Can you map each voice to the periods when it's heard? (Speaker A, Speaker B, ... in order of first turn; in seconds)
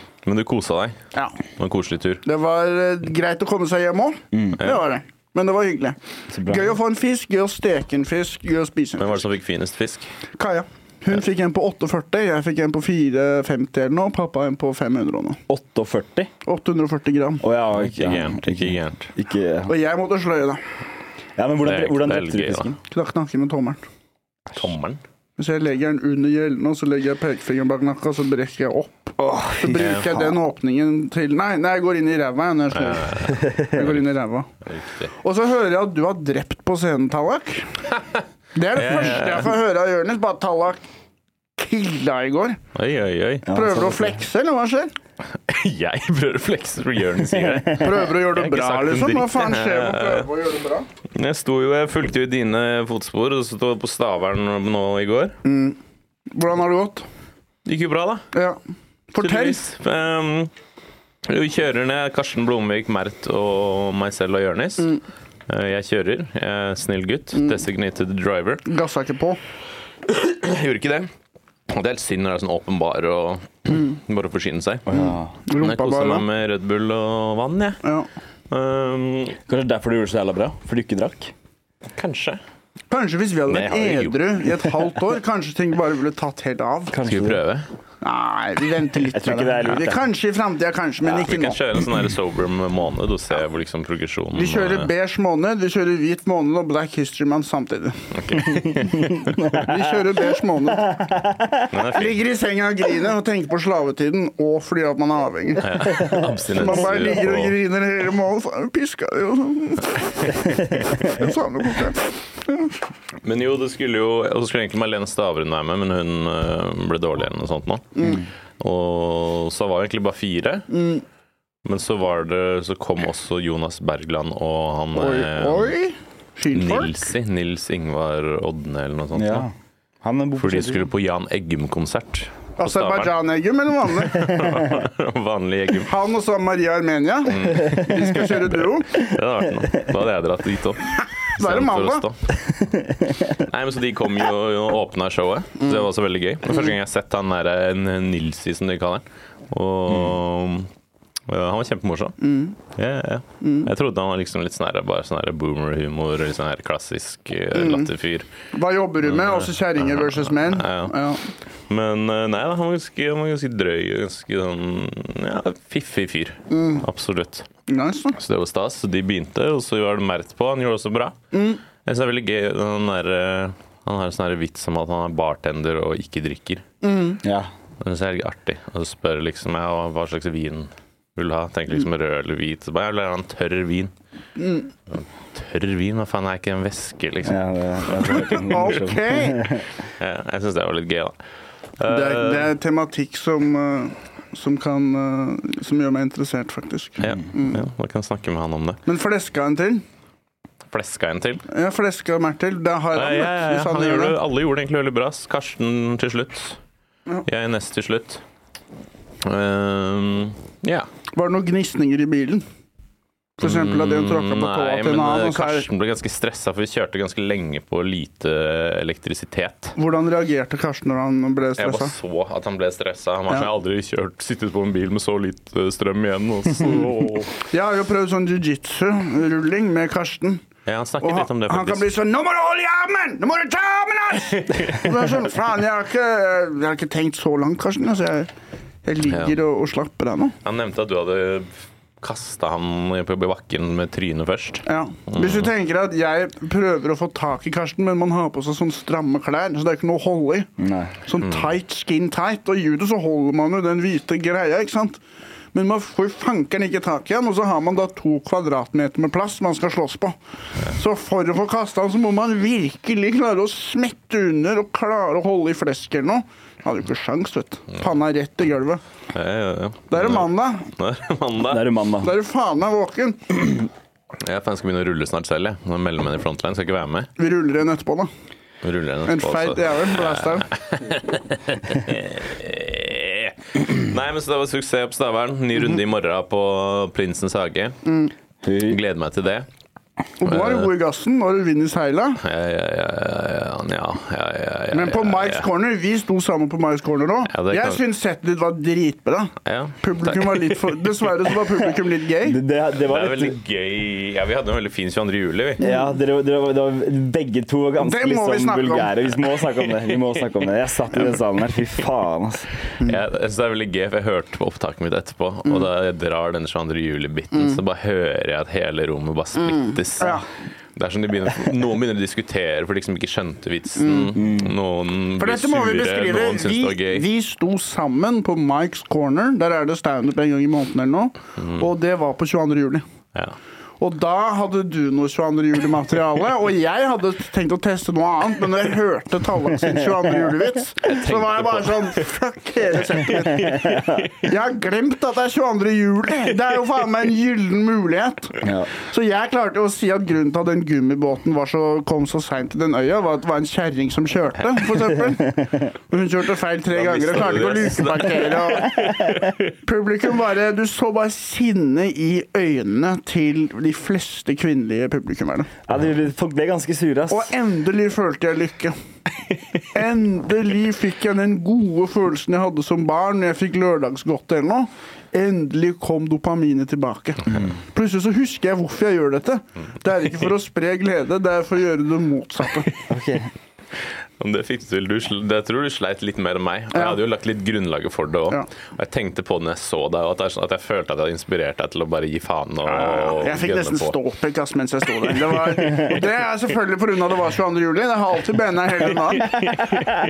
Speaker A: 0.2-1.0, 1.6-2.2, 9.0-10.1, 17.7-19.1, 21.6-22.7, 24.5-25.0, 29.8-30.1, 32.7-33.5, 34.6-35.1, 38.8-39.5, 42.8-43.5, 45.5-50.3, 51.1-55.4, 57.6-58.3, 59.2-60.5, 61.2-68.7, 70.1-71.1, 71.7-74.9, 75.6-77.8, 78.5-79.4, 81.9-82.4, 83.5-84.3, 87.0-87.7, 91.0-94.9, 98.2-99.3, 101.7-102.2, 105.6-107.6, 113.2-118.1, 118.6-120.7, 121.7-125.7, 126.5-129.5, 130.4-133.1, 134.0-135.9, 137.3-142.3, 143.4-150.7, 151.3-158.3, 159.1-160.9, 161.7-167.5, 168.2-171.2, 171.8-176.6, 177.8-183.9, 184.9-188.5, 190.0-191.2, 191.8-192.5, 197.0-198.8, 200.7-201.4, 202.9-206.6, 207.3-208.2, 209.2-210.9, 213.4-219.8, 221.6-227.3, 230.7-231.9, 234.6-234.9, 240.4-245.5, 251.2-251.5, 269.1-271.7, 274.2-277.1, 278.6-287.8, 288.6-289.5, 290.3-290.7, 292.2-295.4, 297.3-297.8, 299.4-300.9, 302.8-305.6, 312.8-320.2, 320.8-327.1, 331.4-331.7, 340.9-342.0, 343.5-344.0, 356.7-359.4, 383.8-393.9, 399.5-399.9
Speaker B: 2.2-9.2, 10.4-15.4, 16.4-17.4, 19.7-20.6, 22.9-23.8, 25.4-34.5, 35.2-37.8, 38.5-40.8, 41.6-42.6, 43.5-44.9, 47.7-50.9, 55.4-55.8, 56.3-57.1, 58.3-58.6, 59.1-59.6, 68.7-69.4, 75.5-76.2, 77.8-78.1, 82.9-87.0, 88.0-91.6, 94.3-98.6, 99.5-101.1, 101.9-106.0, 106.5-112.7, 118.0-118.2, 120.7-121.0, 124.9-126.9, 132.6-134.7, 135.9-139.0, 141.0-142.1, 152.2-152.6, 153.4-153.7, 157.5-157.9, 158.5-161.2, 166.5-166.8, 167.7-168.2, 171.3-171.6, 176.8-177.2, 184.4-184.7, 188.2-189.6, 191.9-197.6, 198.9-199.8, 201.5-204.2, 211.1-212.4, 213.4-215.7, 219.8-221.9, 227.4-230.4, 231.0-238.3, 238.8-240.4, 244.7-250.5, 251.1-255.0, 255.5-268.8, 269.9-270.7, 272.0-273.5, 277.2-278.1, 279.1-280.5, 287.9-288.1, 290.2-292.2, 294.7-302.4, 307.8-309.0, 320.0-320.2, 323.8-324.2, 325.2-332.9, 333.8-359.0, 359.6-365.5, 367.1-368.8, 369.7-382.7, 386.7-387.0, 392.6-399.7
Speaker C: 6.3-6.8, 15.5-16.3, 17.4-19.7, 21.4-22.8, 29.2-30.3, 33.4-33.8, 43.5-44.2, 74.9-75.3, 79.5-81.3, 86.9-87.4, 89.1-90.0, 98.8-100.0, 100.7-101.7, 129.1-130.9, 142.6-143.3, 177.2-177.5, 187.3-189.7, 250.6-250.9, 271.5-272.1, 288.4-288.8, 302.2-303.4, 305.6-312.5, 324.2-324.5, 343.4-344.1, 348.4-348.7, 355.3-355.7, 365.7-367.3, 377.3-377.6, 382.9-383.3